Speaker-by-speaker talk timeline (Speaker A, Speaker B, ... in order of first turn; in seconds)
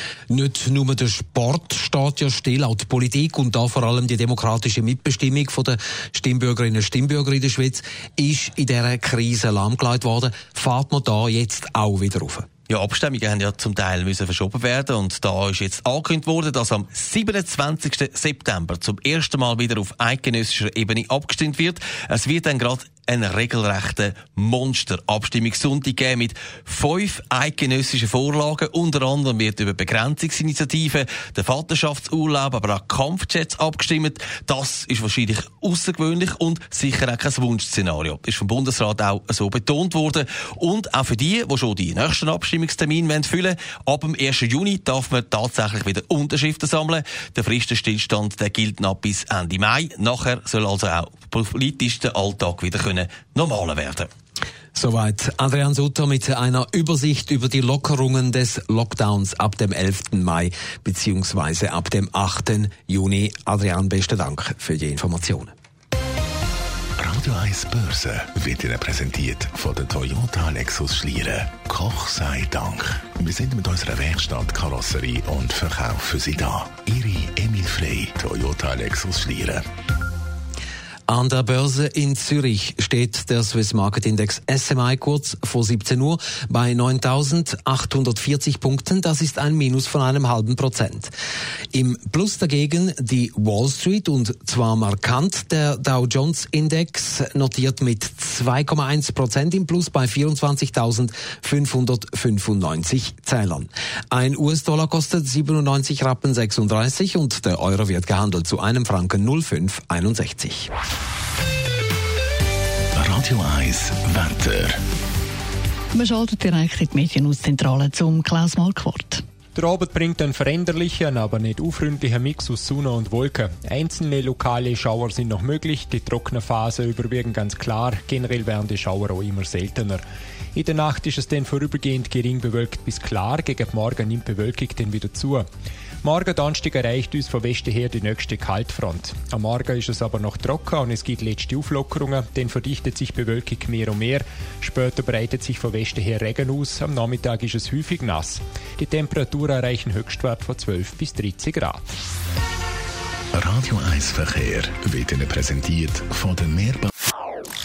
Speaker A: 0.3-12.5, 54.8-65.5, 81.1-91.1, 91.7-110.7
Speaker B: 12.7-54.1
Speaker C: 67.0-79.6, 113.0-114.8, 153.3-156.9
Speaker D: 115.9-119.2
Speaker E: 119.5-130.0, 130.6-135.5, 136.0-151.9